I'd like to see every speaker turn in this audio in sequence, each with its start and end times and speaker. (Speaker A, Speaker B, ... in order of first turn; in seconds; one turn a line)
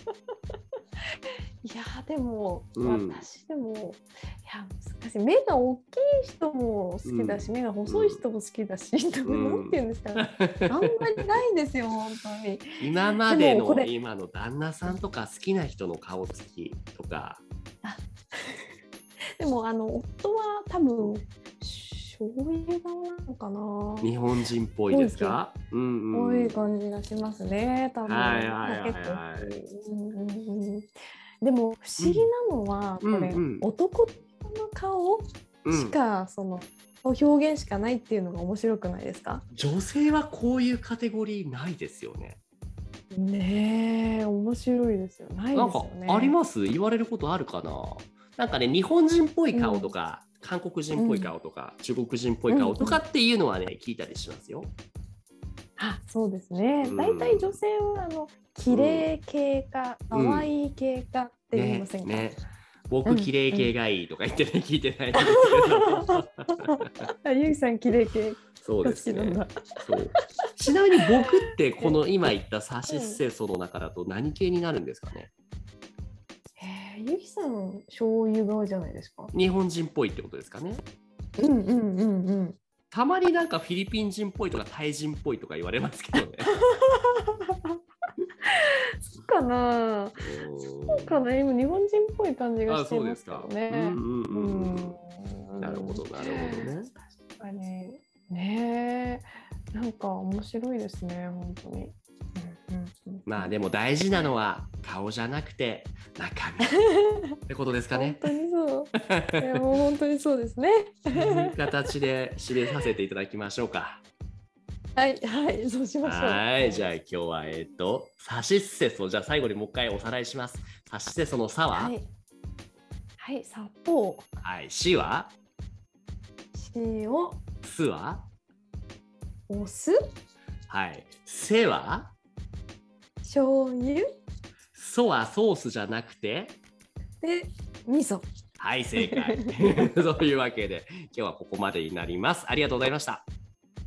Speaker A: 1.6-12.8
Speaker B: 2.8-3.2
Speaker B: 7.0-8.2
Speaker B: 9.2-11.2
Speaker B: 12.8-17.4
Speaker A: 13.3-13.9
Speaker A: 17.8-18.7
Speaker A: 19.4-24.1
Speaker B: 24.0-26.6
Speaker A: 24.9-25.4
Speaker A: 26.1-30.9
Speaker B: 28.1-29.5
Speaker A: 31.4-39.5
Speaker B: 32.0-32.3
Speaker B: 33.0-33.7
Speaker B: 35.6-36.0
Speaker B: 39.5-42.4
Speaker A: 43.1-46.4
Speaker B: 45.5-54.7
Speaker A: 49.5-49.9
Speaker A: 51.0-51.3
Speaker A: 52.5-53.0
Speaker A: 55.8-62.3
Speaker B: 56.8-57.6
Speaker B: 58.7-59.1
Speaker B: 60.1-60.5
Speaker B: 61.5-67.1
Speaker A: 63.1-63.7
Speaker A: 65.2-69.8
Speaker B: 68.6-75.3
Speaker A: 72.9-73.2
Speaker A: 76.6-79.3
Speaker B: 79.3-80.8
Speaker A: 81.4-82.6
Speaker B: 82.9-86.5
Speaker A: 86.7-87.5
Speaker A: 88.5-90.3
Speaker B: 90.2-91.2
Speaker A: 90.9-103.5
Speaker B: 92.7-95.0
Speaker B: 95.6-96.9
Speaker B: 103.3-106.8
Speaker A: 106.7-107.2
Speaker B: 107.5-108.3
Speaker A: 107.9-111.5
Speaker B: 109.1-109.4
Speaker B: 111.1-114.0
Speaker A: 115.0-117.0
Speaker B: 116.0-121.9
Speaker A: 121.7-122.1
Speaker A: 123.2-124.3
Speaker B: 124.4-125.3
Speaker A: 126.5-127.4
Speaker B: 127.6-128.3
Speaker A: 129.5-130.0
Speaker B: 130.7-132.1
Speaker A: 133.2-134.1
Speaker B: 134.7-136.6
Speaker A: 137.2-138.3
Speaker B: 138.6-143.2
Speaker A: 139.0-139.7